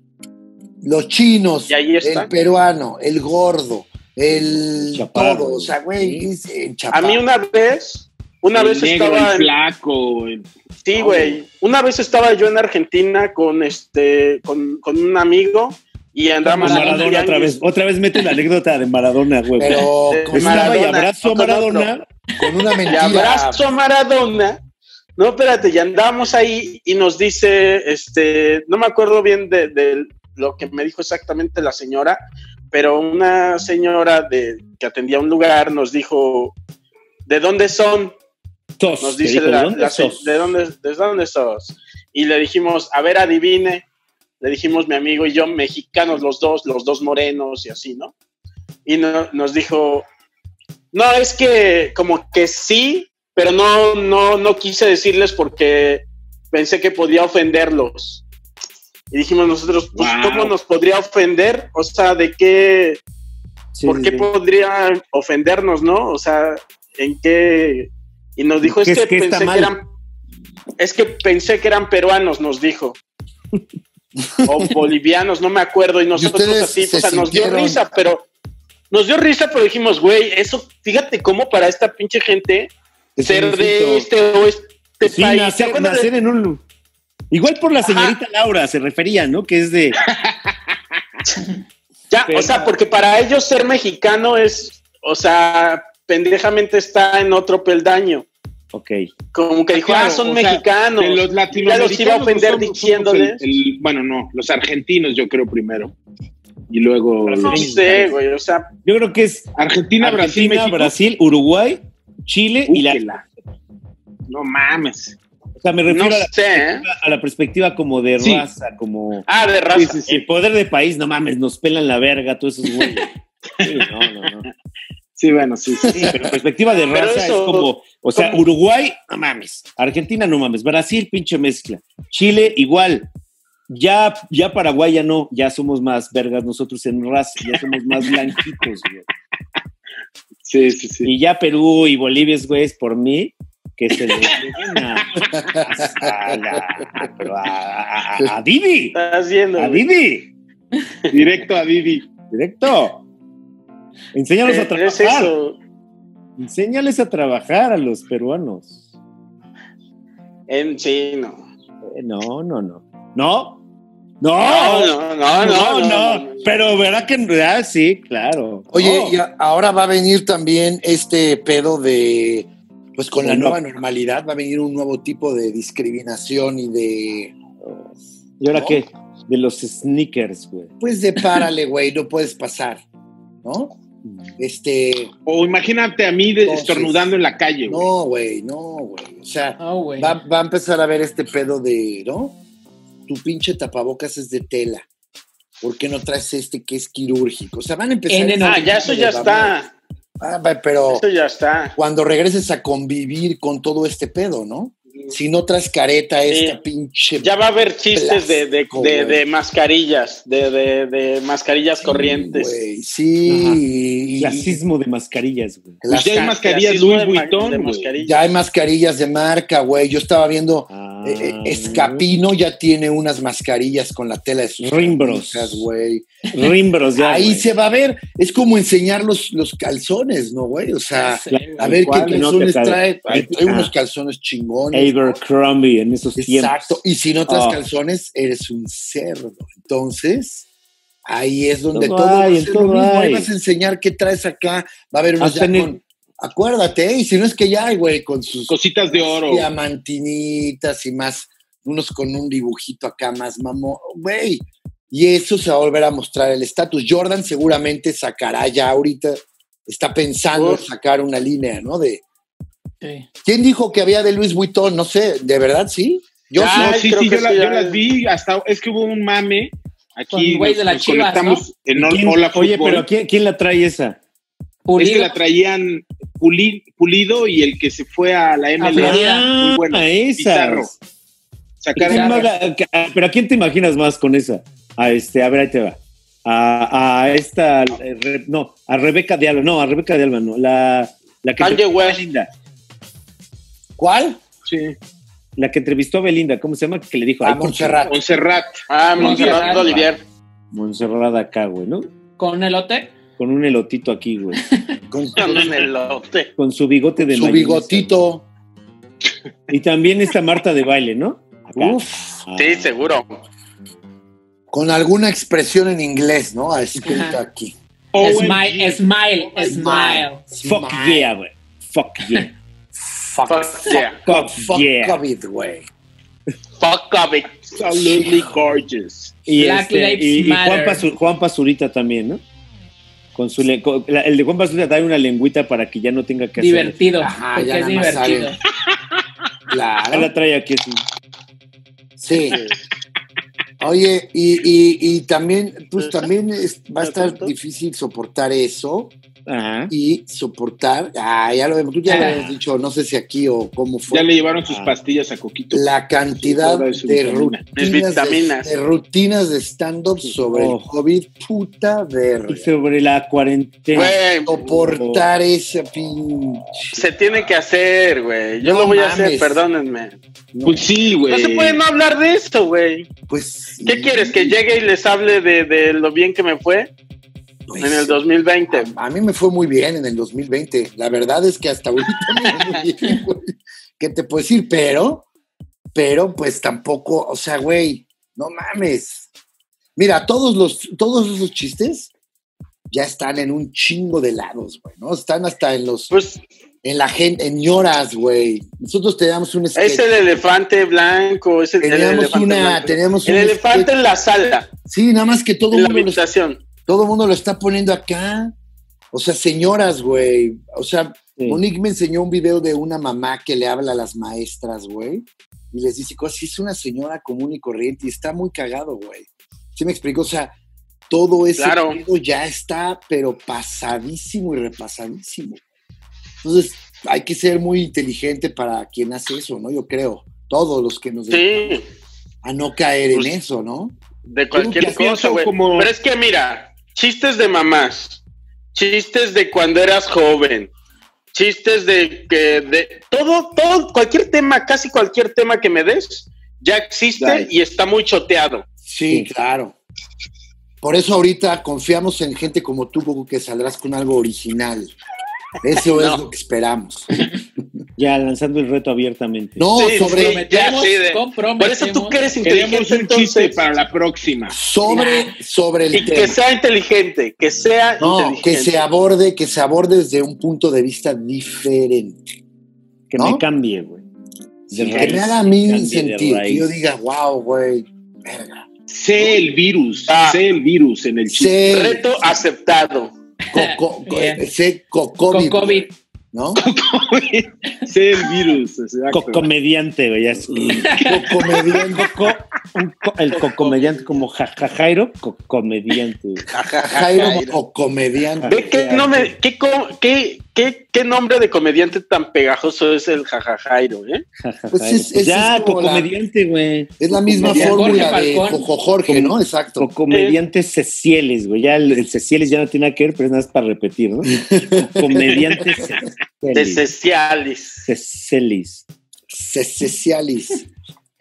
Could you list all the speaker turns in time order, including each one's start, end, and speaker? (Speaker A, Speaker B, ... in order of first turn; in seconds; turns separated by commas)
Speaker A: 0.8-7.2, Speaker B: 1.7-2.3, Speaker C: 4.3-6.3, Speaker B: 6.9-9.5, Speaker D: 8.6-11.4, Speaker B: 10.8-17.6, Speaker C: 16.5-22.1, Speaker E: 16.6-17.1, Speaker A: 19.6-20.8, Speaker B: 20.1-21.9, Speaker A: 22.4-23.6, Speaker B: 22.9-24.6, Speaker B: 25.2-32.2, Speaker B: 32.7-36.6, Speaker B: 37.3-38.1, Speaker C: 38.8-40.4, Speaker B: 39.0-43.9, Speaker B: 44.4-48.1, Speaker B: 48.9-50.1, Speaker B: 50.9-58.2, Speaker B: 59.1-63.0, Speaker D: 60.0-60.5, Speaker C: 63.7-64.3, Speaker B: 63.8-69.9, Speaker C: 68.6-69.7, Speaker B: 70.8-73.0, Speaker A: 74.2-74.5, Speaker B: 74.5-78.3, Speaker A: 76.2-77.8, Speaker B: 78.9-82.7, Speaker C: 83.2-84.1, Speaker B: 83.2-86.1, Speaker C: 85.0-86.6, Speaker C: 87.3-90.0, Speaker B: 87.8-88.2, Speaker D: 90.1-90.5, Speaker B: 92.1-98.3, Speaker C: 92.3-92.7, Speaker C: 98.7-99.1, Speaker B: 99.3-103.4, Speaker D: 99.7-105.9, Speaker D: 106.7-107.7, Speaker C: 107.2-108.2, Speaker B: 107.5-108.7, Speaker C: 108.8-113.0, Speaker D: 109.6-110.9, Speaker D: 112.7-113.2, Speaker D: 114.3-115.2, Speaker C: 115.6-119.3, Speaker B: 115.9-116.9, Speaker D: 118.2-118.5, Speaker B: 119.3-120.2, Speaker D: 119.7-120.1, Speaker C: 120.1-123.1, Speaker D: 123.6-123.9, Speaker C: 123.6-124.5, Speaker D: 125.2-126.2, Speaker C: 125.9-133.1, Speaker B: 126.9-128.4, Speaker C: 133.7-139.1, Speaker D: 140.4-141.1, Speaker C: 141.0-149.0, Speaker A: 145.3-146.1, Speaker B: 148.9-149.9, Speaker C: 149.6-150.3, Speaker D: 151.1-152.1, Speaker C: 152.3-153.0, Speaker C: 154.1-155.3, Speaker B: 154.4-155.6, Speaker C: 156.4-158.8, Speaker B: 160.5-161.5, Speaker C: 161.8-163.6, Speaker C: 164.2-169.2, Speaker B: 164.4-166.6, Speaker A: 168.7-177.3, Speaker C: 173.2-173.6, Speaker C: 177.6-180.7, Speaker A: 178.5-178.8, Speaker A: 180.8-182.8, Speaker A: 183.4-183.8, Speaker A: 184.4-185.1, Speaker D: 185.3-187.9, Speaker A: 186.4-187.1, Speaker A: 187.7-192.4, Speaker E: 189.6-190.2, Speaker A: 193.1-194.9, Speaker A: 195.6-199.6, Speaker E: 198.1-198.9, Speaker B: 198.4-199.7, Speaker A: 200.2-201.0, Speaker B: 200.9-201.8, Speaker A: 201.8-207.3, Speaker B: 206.3-206.6, Speaker B: 207.2-212.5, Speaker A: 207.9-209.2, Speaker A: 211.8-214.6, Speaker C: 213.3-213.6, Speaker C: 214.2-215.8, Speaker A: 215.8-216.4, Speaker D: 215.9-218.0, Speaker B: 216.2-218.3, Speaker A: 218.0-226.3, Speaker C: 220.7-222.1, Speaker C: 224.6-225.7, Speaker C: 226.3-227.5, Speaker A: 227.0-235.2, Speaker E: 231.0-232.2, Speaker C: 231.6-233.7, Speaker C: 234.7-237.6, Speaker A: 236.2-240.5, Speaker A: 241.1-262.0, Speaker C: 241.7-243.3, Speaker C: 245.2-245.8, Speaker D: 248.5-249.5, Speaker B: 260.4-260.7, Speaker E: 262.8-263.1, Speaker A: 263.2-266.8, Speaker B: 266.4-267.8, Speaker D: 266.4-272.9, Speaker E: 270.1-271.4, Speaker C: 271.8-274.0, Speaker E: 274.7-275.1, Speaker D: 274.8-280.7, Speaker E: 278.6-279.3, Speaker C: 278.7-280.8, Speaker D: 281.6-282.3, Speaker C: 281.8-292.3, Speaker E: 281.8-282.3, Speaker B: 291.4-292.0, Speaker A: 293.8-294.2, Speaker D: 294.5-294.8, Speaker C: 295.4-297.8, Speaker A: 297.2-298.1, Speaker D: 297.9-298.6, Speaker B: 298.7-300.0, Speaker E: 299.0-299.7, Speaker C: 299.0-299.9, Speaker D: 299.1-299.5, Speaker C: 300.5-301.9, Speaker E: 302.2-302.9, Speaker C: 303.2-304.4, Speaker A: 304.9-305.7, Speaker B: 305.2-306.3, Speaker C: 306.4-308.0, Speaker A: 307.0-308.3, Speaker C: 309.5-312.7, Speaker A: 311.6-312.2, Speaker B: 312.4-313.2, Speaker A: 314.5-317.5, Speaker E: 316.8-317.2, Speaker D: 317.9-318.8, Speaker E: 318.0-320.2, Speaker A: 319.4-321.1, Speaker C: 320.4-322.3, Speaker A: 322.7-325.7, Speaker B: 323.3-324.0, Speaker C: 324.1-325.0, Speaker B: 326.6-327.6, Speaker D: 327.5-329.3, Speaker A: 327.8-328.3, Speaker C: 329.3-332.2, Speaker E: 329.3-330.9, Speaker C: 333.1-336.8, Speaker E: 336.4-338.4, Speaker A: 337.0-338.3, Speaker A: 339.5-340.1, Speaker C: 339.9-340.8, Speaker A: 342.0-342.4, Speaker B: 342.3-342.6, Speaker A: 343.6-348.9, Speaker B: 346.8-347.3, Speaker C: 349.3-349.7, Speaker A: 349.7-354.1, Speaker C: 351.9-352.4, Speaker E: 351.9-352.2, Speaker D: 353.9-357.5, Speaker C: 354.5-354.8, Speaker A: 355.5-362.5, Speaker B: 357.6-358.5, Speaker C: 360.0-360.7, Speaker C: 362.3-365.1, Speaker B: 363.7-364.4, Speaker A: 363.7-366.9, Speaker B: 366.7-370.0, Speaker A: 368.4-369.4, Speaker A: 370.3-370.7, Speaker D: 370.4-371.6, Speaker B: 371.1-372.9, Speaker A: 373.1-374.4, Speaker B: 373.6-376.7, Speaker A: 377.5-378.0, Speaker B: 377.6-378.7, Speaker A: 378.5-383.3, Speaker B: 382.2-382.6, Speaker A: 383.8-385.1, Speaker A: 385.7-389.1, Speaker A: 389.8-391.9, Speaker A: 392.7-395.9, Speaker B: 395.9-396.2, Speaker A: 396.6-399.9, Speaker B: 399.6-404.5, Speaker A: 401.6-403.7, Speaker A: 404.7-406.0, Speaker B: 405.5-406.4, Speaker A: 406.7-408.4, Speaker A: 408.9-420.3, Speaker A: 420.9-425.4, Speaker B: 421.4-421.8, Speaker A: 426.2-431.6, Speaker B: 431.1-431.6, Speaker A: 432.2-433.8, Speaker B: 434.1-438.0, Speaker A: 434.3-434.9, Speaker D: 434.8-435.7, Speaker B: 438.5-440.5, Speaker B: 441.1-448.5, Speaker D: 447.0-447.3, Speaker A: 448.6-449.6, Speaker A: 450.6-454.7, Speaker A: 455.4-457.4, Speaker B: 455.7-456.1, Speaker C: 457.8-459.5, Speaker A: 459.4-460.2, Speaker B: 459.5-463.4, Speaker E: 459.7-462.2, Speaker D: 462.2-464.4, Speaker A: 464.3-466.2, Speaker E: 464.7-465.1, Speaker B: 465.7-468.7, Speaker A: 467.8-472.0, Speaker C: 472.9-473.8, Speaker A: 473.0-473.2, Speaker A: 474.5-478.5, Speaker C: 474.5-476.5, Speaker D: 478.7-481.4, Speaker B: 479.9-480.2, Speaker A: 481.1-481.9, Speaker B: 481.5-482.9, Speaker E: 483.3-484.2, Speaker A: 483.3-486.4, Speaker E: 485.1-485.7, Speaker D: 486.4-489.3, Speaker C: 488.9-490.7, Speaker E: 490.7-491.0, Speaker A: 490.8-491.9, Speaker C: 491.8-496.2, Speaker B: 493.1-494.0, Speaker A: 496.3-499.1, Speaker B: 496.4-497.4, Speaker C: 498.2-499.1, Speaker B: 498.3-504.0, Speaker C: 504.2-508.1, Speaker A: 504.5-505.9, Speaker A: 506.8-509.7, Speaker E: 507.2-508.5, Speaker C: 508.9-516.6, Speaker B: 509.9-510.2, Speaker A: 514.1-515.7, Speaker B: 516.3-517.7, Speaker C: 517.6-518.6, Speaker A: 519.1-520.5